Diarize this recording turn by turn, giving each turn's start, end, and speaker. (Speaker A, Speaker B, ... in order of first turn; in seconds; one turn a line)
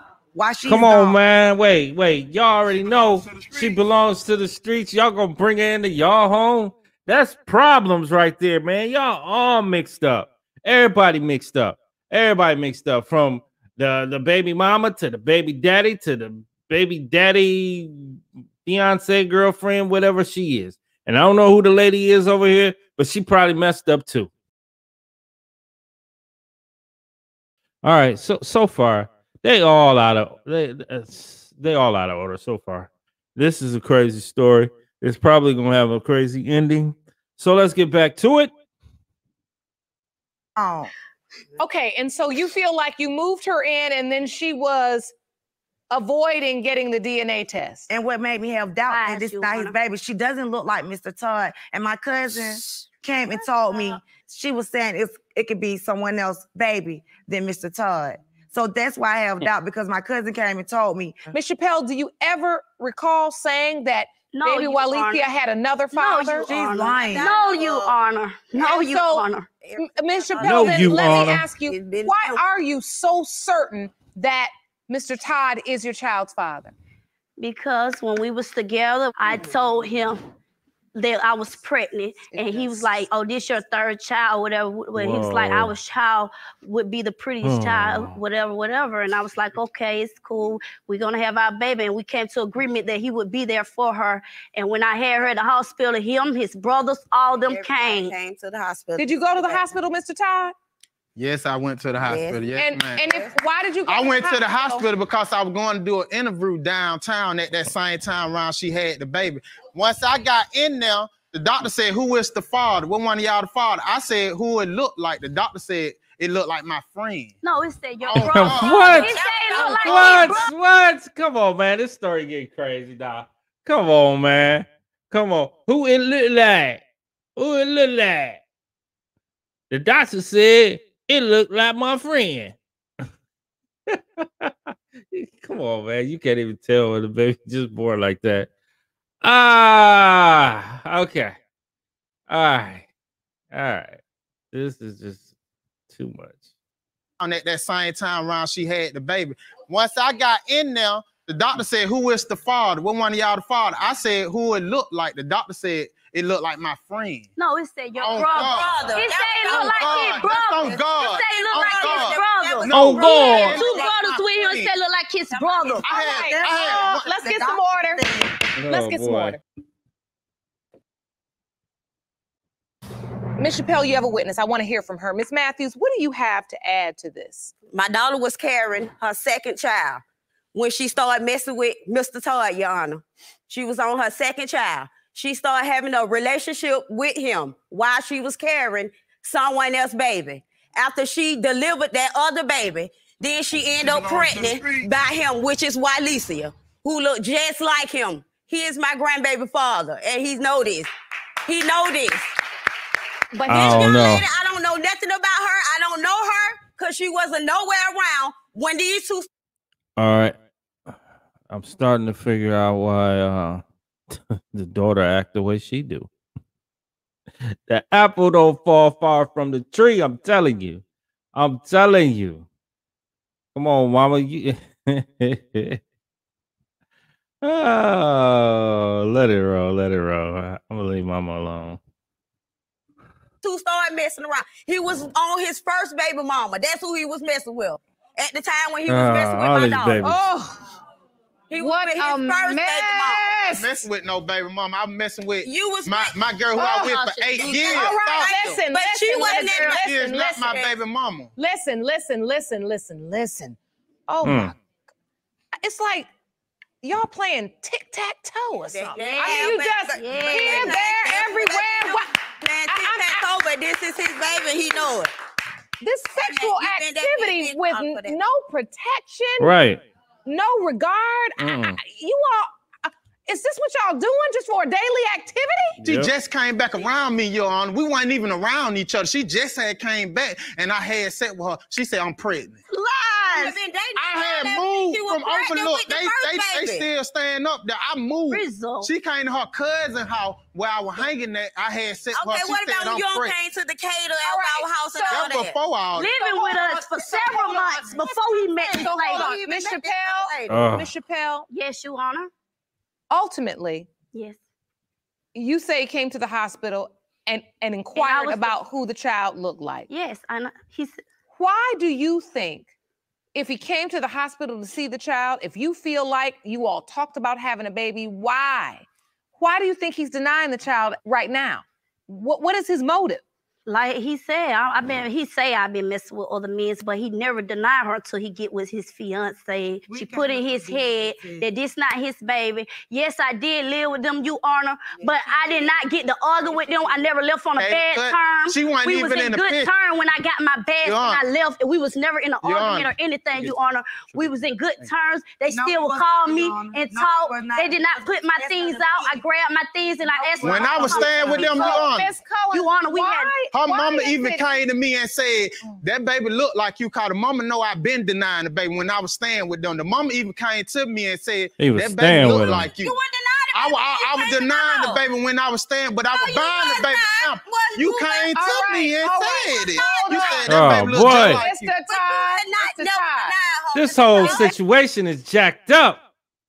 Speaker A: 0.3-1.2
Speaker B: 0.6-24.3
Speaker B: 27.8-38.5
Speaker A: 40.6-40.9
Speaker C: 41.6-45.1
Speaker C: 45.9-47.9
Speaker A: 47.9-61.2
Speaker D: 48.9-49.7
Speaker C: 61.3-66.5
Speaker D: 64.3-65.3
Speaker D: 65.9-69.5
Speaker A: 66.5-67.3
Speaker E: 66.7-68.0
Speaker C: 68.5-69.3
Speaker E: 69.6-72.4
Speaker C: 69.8-76.7
Speaker B: 70.4-71.5
Speaker D: 77.4-80.2
Speaker D: 81.0-98.2
Speaker C: 82.3-82.9
Speaker B: 85.0-85.8
Speaker B: 87.4-88.2
Speaker E: 97.4-99.7
Speaker C: 99.0-100.5
Speaker F: 101.2-103.1
Speaker E: 102.0-102.6
Speaker C: 102.6-104.8
Speaker F: 103.9-117.4
Speaker D: 117.4-120.5
Speaker F: 118.0-119.0
Speaker B: 118.2-126.8
Speaker E: 119.0-120.5
Speaker B: 127.4-128.4
Speaker B: 129.7-132.6
Speaker B: 134.2-138.5
Speaker B: 139.2-141.3
Speaker B: 142.3-142.8
Speaker B: 143.5-144.0
Speaker B: 144.5-145.2
Speaker B: 145.9-146.4
Speaker F: 147.2-157.3
Speaker D: 157.4-165.9
Speaker F: 158.0-159.0
Speaker E: 158.1-163.9
Speaker F: 159.6-164.7
Speaker B: 162.7-163.6
Speaker E: 165.3-165.8
Speaker F: 165.8-167.2
Speaker C: 165.9-169.4
Speaker A: 166.2-168.3
Speaker B: 168.6-169.4
Speaker C: 173.4-177.5
Speaker E: 177.7-180.0
Speaker E: 180.5-200.9
Speaker F: 193.8-194.9
Speaker E: 201.5-202.3
Speaker C: 203.3-203.9
Speaker B: 203.5-204.3
Speaker E: 203.5-209.3
Speaker B: 210.0-210.4
Speaker B: 211.5-213.6
Speaker B: 214.3-216.1
Speaker B: 217.7-222.4
Speaker B: 223.6-225.8
Speaker B: 227.4-231.8
Speaker E: 233.4-240.1
Speaker B: 238.9-240.3
Speaker C: 240.0-240.6
Speaker E: 241.5-243.4
Speaker C: 241.6-243.7
Speaker F: 243.5-248.6
Speaker E: 245.4-249.9
Speaker C: 246.6-247.0
Speaker C: 247.7-250.6
Speaker F: 249.4-251.3
Speaker E: 250.4-250.7
Speaker C: 251.4-253.6
Speaker C: 254.1-254.6
Speaker B: 254.2-254.5
Speaker C: 255.6-256.1
Speaker C: 256.8-262.1
Speaker E: 258.7-265.1
Speaker A: 259.0-259.5
Speaker D: 259.9-260.6
Speaker C: 262.7-263.3
Speaker C: 265.8-269.5
Speaker E: 266.1-268.2
Speaker B: 269.4-269.8
Speaker C: 270.2-275.8
Speaker B: 271.4-271.8
Speaker B: 275.8-276.1
Speaker F: 275.8-282.6
Speaker E: 283.0-286.9
Speaker F: 283.9-293.4
Speaker D: 288.3-288.9
Speaker E: 292.1-295.6
Speaker C: 294.2-295.2
Speaker F: 295.1-296.1
Speaker D: 295.9-299.3
Speaker C: 296.1-298.2
Speaker E: 298.6-300.6
Speaker C: 298.8-301.5
Speaker B: 300.5-300.9
Speaker D: 301.5-302.3
Speaker C: 303.1-303.9
Speaker D: 304.1-304.4
Speaker C: 305.3-309.9
Speaker D: 307.9-308.6
Speaker D: 309.9-311.0
Speaker C: 311.3-312.7
Speaker C: 313.3-318.9
Speaker C: 319.4-323.2
Speaker D: 323.7-351.9
Speaker A: 329.9-331.5
Speaker E: 335.0-335.6
Speaker E: 336.4-337.0
Speaker F: 337.6-339.7
Speaker F: 340.8-341.2
Speaker F: 342.4-343.6
Speaker A: 345.5-349.2
Speaker A: 350.1-351.5
Speaker F: 350.4-352.1
Speaker E: 351.1-351.5
Speaker C: 351.5-354.5
Speaker D: 352.5-353.4
Speaker F: 353.5-363.0
Speaker B: 361.6-362.7
Speaker E: 362.8-365.0
Speaker F: 363.5-371.8
Speaker E: 366.1-368.5
Speaker C: 368.4-373.4
Speaker E: 369.7-370.5
Speaker B: 370.5-371.4
Speaker E: 371.9-374.5
Speaker B: 373.7-376.0
Speaker C: 374.2-374.5